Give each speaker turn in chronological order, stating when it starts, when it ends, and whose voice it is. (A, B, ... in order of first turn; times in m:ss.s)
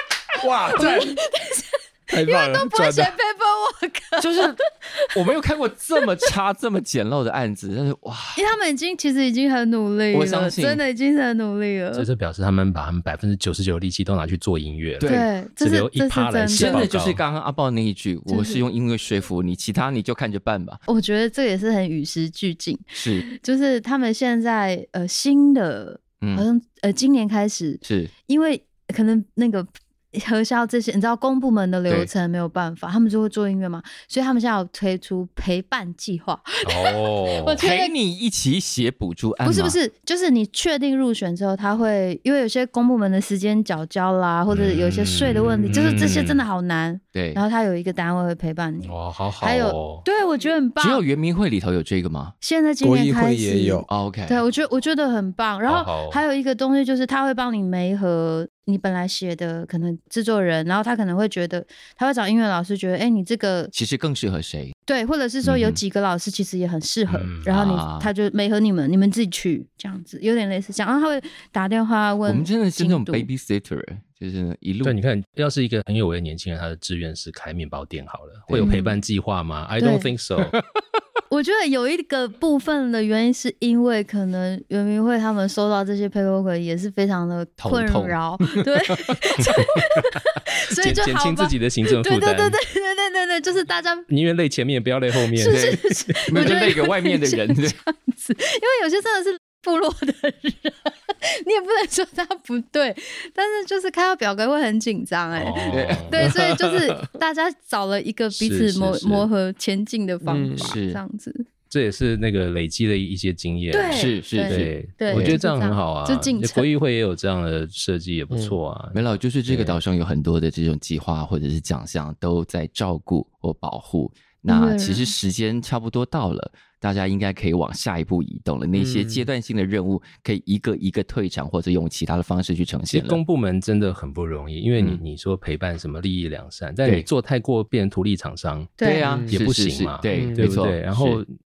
0:00.4-0:01.2 A
0:00.7-0:05.1 B
0:02.1-0:03.1 A
0:04.2-0:04.6 C
0:05.1-0:08.4 C
0:08.4-0:12.1 B
0:10.1-0:10.8 C
0:11.9-0:17.2 D
0:15.0-0:15.3 C
0:15.0-0:16.9 B
0:16.5-0:20.8 C
0:18.3-0:18.6 B
0:20.9-0:37.9 B
0:22.9-0:23.2 C
0:26.2-0:26.4 C
0:27.8-0:28.1 C
0:36.6-0:37.6 D
0:37.6-0:39.8 C
0:39.4-0:51.0 B
0:44.5-0:46.4 D
0:45.7-0:46.0 C
0:47.1-0:47.4 C
0:48.8-0:50.0 D
0:50.8-0:52.3 C
0:52.4-1:03.7 B
0:52.8-0:53.9 A
0:53.9-0:54.4 C
0:55.7-0:56.2 D
1:03.7-1:04.7 C
1:04.9-1:13.3 B
1:05.4-1:05.8 C
1:07.1-1:07.5 D
1:07.5-1:08.1 C
1:12.2-1:15.0 C
1:14.8-1:20.5 D
1:18.5-1:18.8 C
1:18.6-1:19.0 B
1:19.8-1:20.1 B
1:21.3-1:34.1 B
1:27.6-1:28.2 C
1:30.8-1:32.6 D
1:34.1-1:35.8 D
1:35.3-1:51.4 B
1:35.5-1:37.8 C
1:45.3-1:46.3 D
1:45.7-1:46.1 C
1:46.3-1:47.0 A
1:48.3-1:49.3 D
1:50.2-1:50.7 A
1:50.6-1:51.0 C
1:51.7-1:59.8 D
1:53.7-1:56.7 B
1:53.9-1:55.4 C
1:58.9-2:13.2 C
2:04.5-2:05.1 B
2:08.7-2:09.2 A
2:12.9-2:18.8 D
2:18.8-2:19.0 B
2:18.8-2:21.2 C
2:19.0-2:19.3 A
2:19.3-2:21.3 D
2:20.1-2:20.5 A